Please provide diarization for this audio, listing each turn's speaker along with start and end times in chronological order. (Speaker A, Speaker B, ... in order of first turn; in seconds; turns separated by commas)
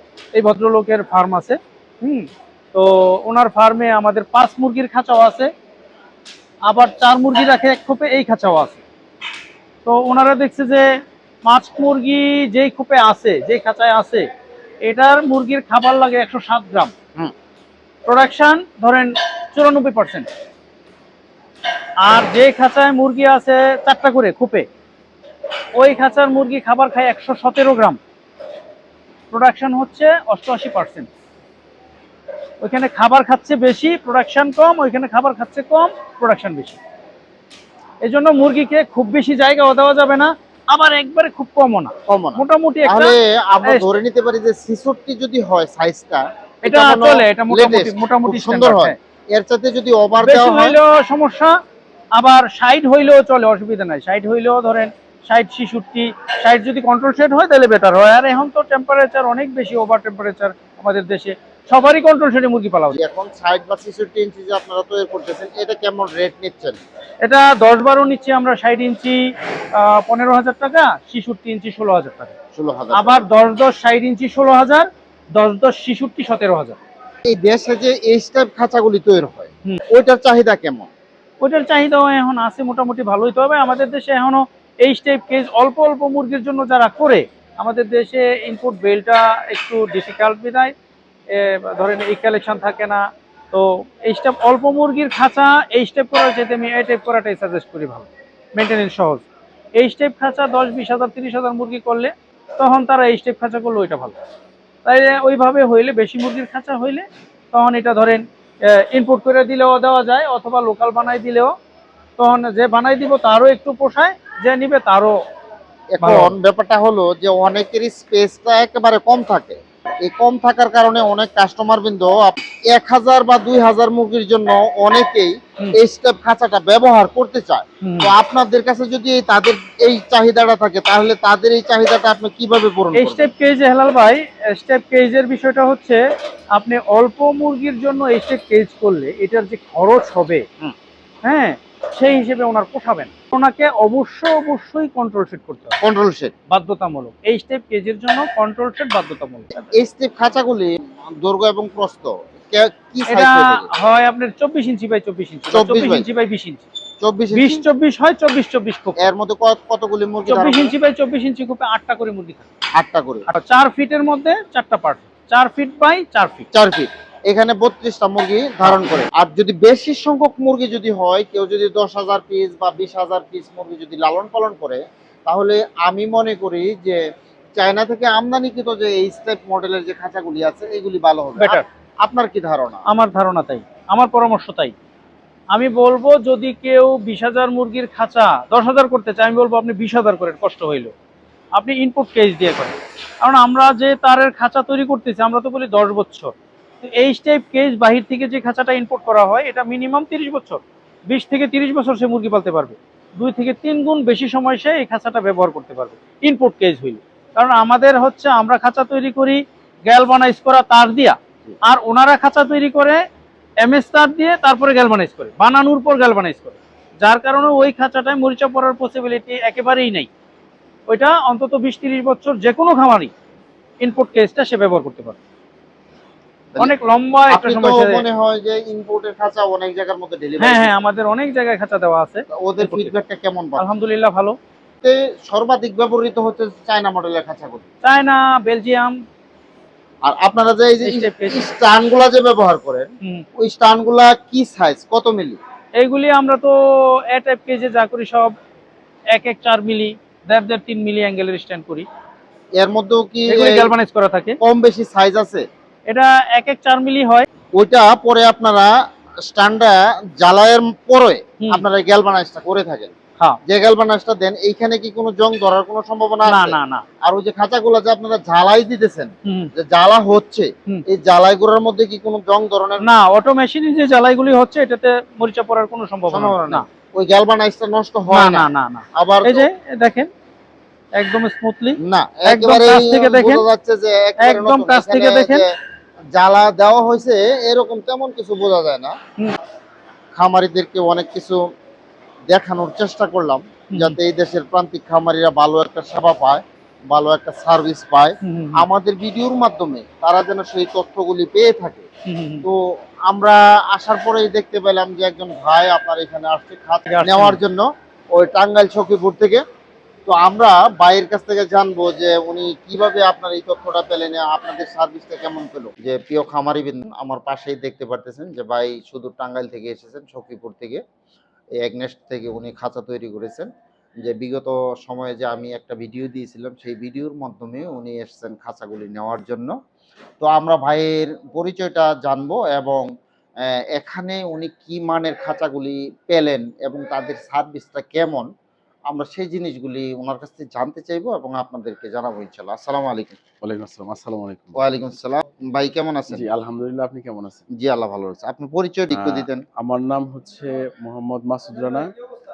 Speaker A: 0.3-5.5, Speaker A: 6.7-8.8, Speaker A: 9.8-10.9, Speaker A: 11.4-14.2, Speaker A: 14.8-16.9, Speaker A: 18.1-20.3, Speaker A: 22.0-24.6, Speaker A: 25.8-28.0, Speaker A: 29.3-31.1, Speaker A: 32.6-36.8, Speaker A: 38.0-43.9, Speaker B: 42.0-50.8, Speaker A: 46.6-49.0, Speaker A: 50.2-51.5, Speaker A: 52.1-63.0, Speaker B: 62.9-66.8, Speaker A: 67.2-69.2, Speaker A: 69.7-72.3, Speaker B: 72.5-73.2, Speaker A: 72.9-76.8, Speaker B: 77.2-80.9, Speaker A: 81.4-90.7, Speaker A: 91.3-104.2, Speaker A: 104.8-111.5, Speaker A: 112.2-115.2, Speaker B: 115.9-133.3, Speaker A: 116.0-116.3, Speaker A: 127.8-128.1, Speaker A: 132.9-136.0, Speaker A: 136.5-140.4, Speaker A: 141.2-145.8, Speaker B: 145.8-146.3, Speaker A: 146.5-149.5, Speaker B: 149.7-153.7, Speaker A: 153.1-156.7, Speaker B: 155.5-156.1, Speaker B: 157.0-157.6, Speaker A: 157.3-159.1, Speaker B: 159.0-160.7, Speaker A: 160.3-162.4, Speaker B: 162.8-163.3, Speaker A: 163.3-166.5, Speaker B: 166.5-177.0, Speaker B: 177.6-182.8, Speaker A: 181.4-181.6, Speaker A: 182.9-184.7, Speaker A: 185.5-190.9, Speaker A: 191.5-213.0, Speaker A: 213.6-220.1, Speaker A: 220.9-223.1, Speaker A: 223.8-225.2, Speaker A: 226.6-228.0, Speaker B: 227.3-230.7, Speaker A: 230.4-232.9, Speaker B: 232.3-233.7, Speaker A: 233.6-234.3, Speaker B: 234.8-237.7, Speaker A: 237.8-239.0, Speaker B: 240.0-245.4, Speaker A: 240.8-241.4, Speaker A: 245.8-248.3, Speaker A: 249.1-251.8, Speaker B: 252.6-253.7, Speaker A: 253.3-254.4, Speaker B: 254.4-255.4, Speaker A: 255.9-257.2, Speaker B: 257.5-258.7, Speaker B: 259.2-262.9, Speaker B: 263.4-272.8, Speaker A: 266.2-266.8, Speaker A: 269.2-269.5, Speaker A: 272.8-276.6, Speaker B: 276.1-279.5, Speaker A: 278.1-280.1, Speaker A: 281.0-283.4, Speaker B: 281.8-285.5, Speaker A: 284.2-285.4, Speaker B: 286.1-288.9, Speaker B: 290.1-291.4, Speaker B: 292.3-301.9, Speaker A: 293.7-294.0, Speaker A: 298.2-298.6, Speaker A: 302.1-302.4, Speaker B: 302.4-309.4, Speaker A: 306.9-307.4, Speaker B: 310.1-320.8, Speaker B: 321.6-323.5, Speaker B: 324.0-329.5, Speaker B: 330.2-332.9, Speaker B: 333.4-338.3, Speaker B: 338.9-343.2, Speaker C: 343.4-344.6, Speaker B: 344.6-346.3, Speaker C: 346.1-347.4, Speaker B: 347.6-349.4, Speaker C: 348.9-351.9